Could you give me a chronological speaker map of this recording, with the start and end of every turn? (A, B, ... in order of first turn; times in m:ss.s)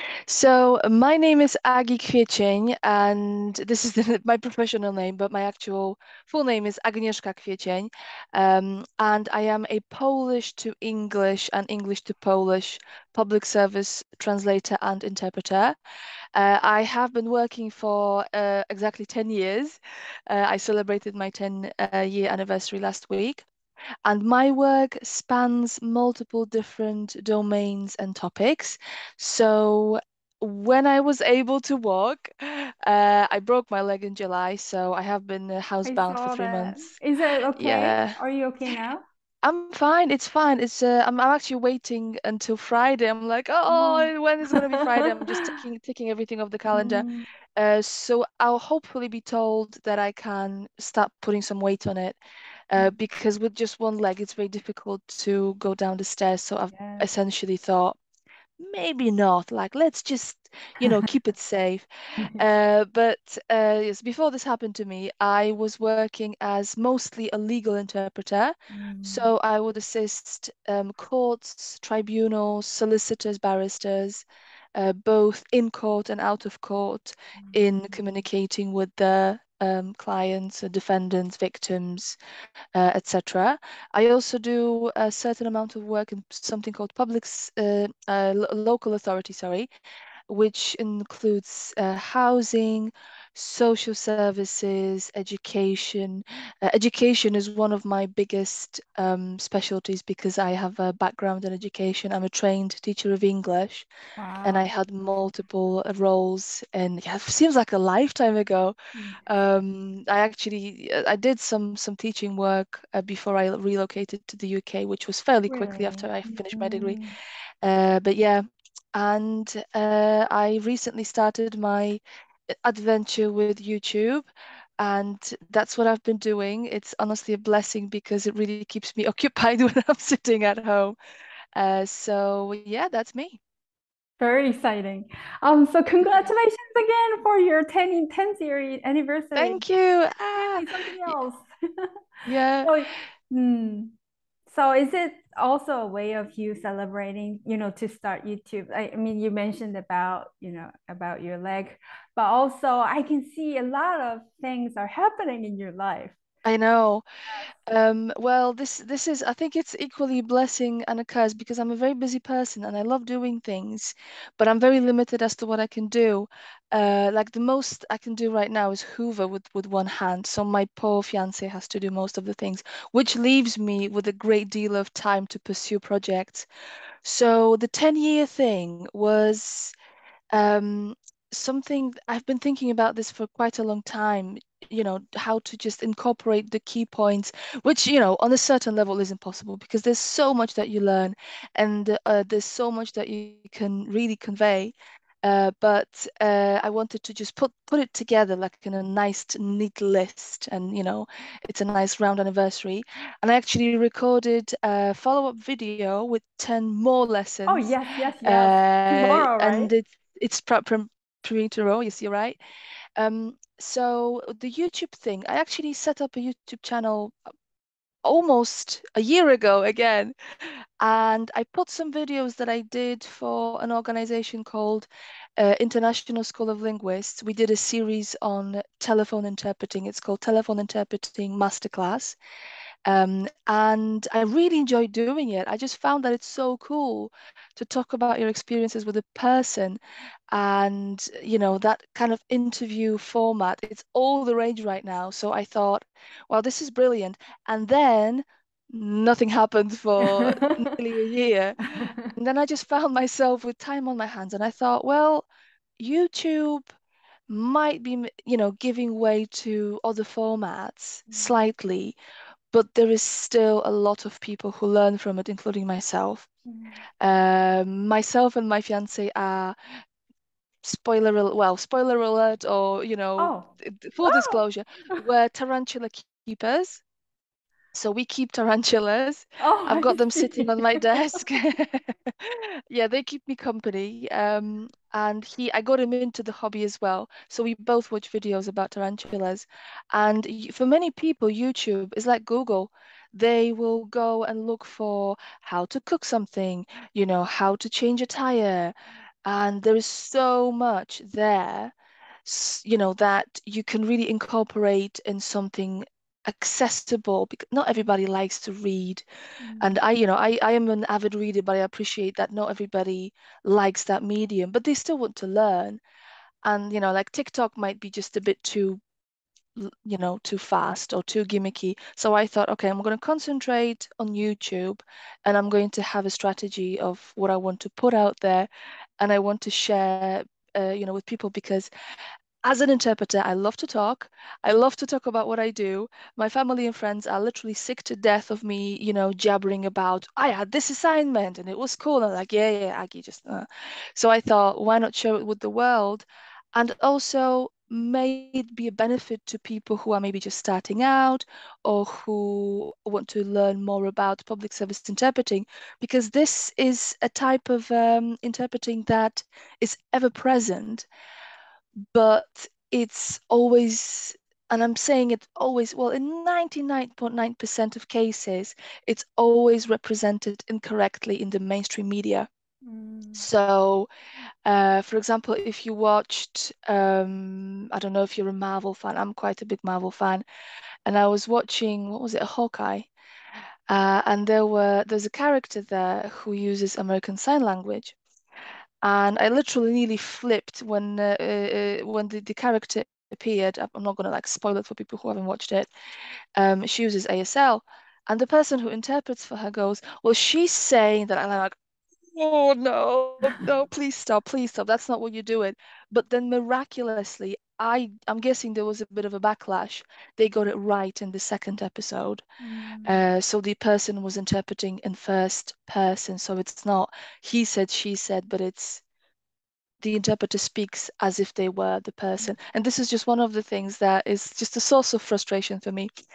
0:00.3-0:15.8 A
0:16.4-0:23.5 A
0:24.1-0:37.0 A
0:35.8-0:39.0 B
0:37.6-0:38.2 A
0:39.4-0:52.2 A
0:43.7-0:45.6 B
0:46.7-0:47.3 B
0:52.7-0:58.0 A
0:56.7-0:57.1 B
0:58.6-1:14.2 A
1:08.7-1:09.3 B
1:14.8-1:22.2 A
1:17.4-1:18.0 B
1:22.8-1:29.7 A
1:30.3-1:43.9 A
1:44.2-1:44.7 B
1:44.4-1:57.0 A
1:49.0-1:49.2 B
1:55.5-1:57.2 B
1:57.6-1:58.4 A
1:59.0-2:04.3 A
2:04.8-2:11.0 A
2:11.6-2:13.4 A
2:14.2-2:19.6 B
2:16.0-2:16.3 A
2:19.4-2:21.2 A
2:20.4-2:21.9 B
2:22.3-2:22.7 A
2:22.6-2:24.0 B
2:24.5-2:36.2 B
2:36.4-2:37.0 A
2:37.7-2:56.5 A
2:57.0-2:59.7 A
3:00.3-3:27.7 A
3:27.5-3:29.7 B
3:28.2-3:32.4 A
3:33.0-3:37.2 A
3:38.0-3:52.2 A
3:52.9-3:59.8 A
4:00.3-4:11.6 A
4:10.0-4:10.8 B
4:11.6-4:12.1 B
4:12.1-4:15.3 A
4:15.8-4:16.6 A
4:17.3-4:22.0 A
4:21.1-4:21.4 B
4:22.5-4:26.3 A
4:26.5-4:26.8 B
4:27.0-4:29.6 A
4:30.6-4:36.8 A
4:33.2-4:33.5 B
4:34.0-4:34.4 B
4:37.7-4:58.7 A
4:39.4-4:41.2 B
4:59.3-5:01.7 A
5:02.2-5:09.0 A
5:09.4-5:09.8 B
5:09.6-5:15.8 A
5:16.4-5:18.8 A
5:19.6-5:31.7 A
5:32.4-6:00.9 A
6:01.9-6:12.3 A
6:12.6-6:13.3 B
6:13.2-6:13.9 A
6:14.5-6:20.2 A
6:20.9-6:22.9 A
6:23.7-6:28.0 A
6:28.8-6:35.7 A
6:36.4-6:41.6 A
6:42.1-6:52.2 A
6:52.4-6:53.0 B
6:52.8-6:58.8 A
6:59.8-7:05.9 A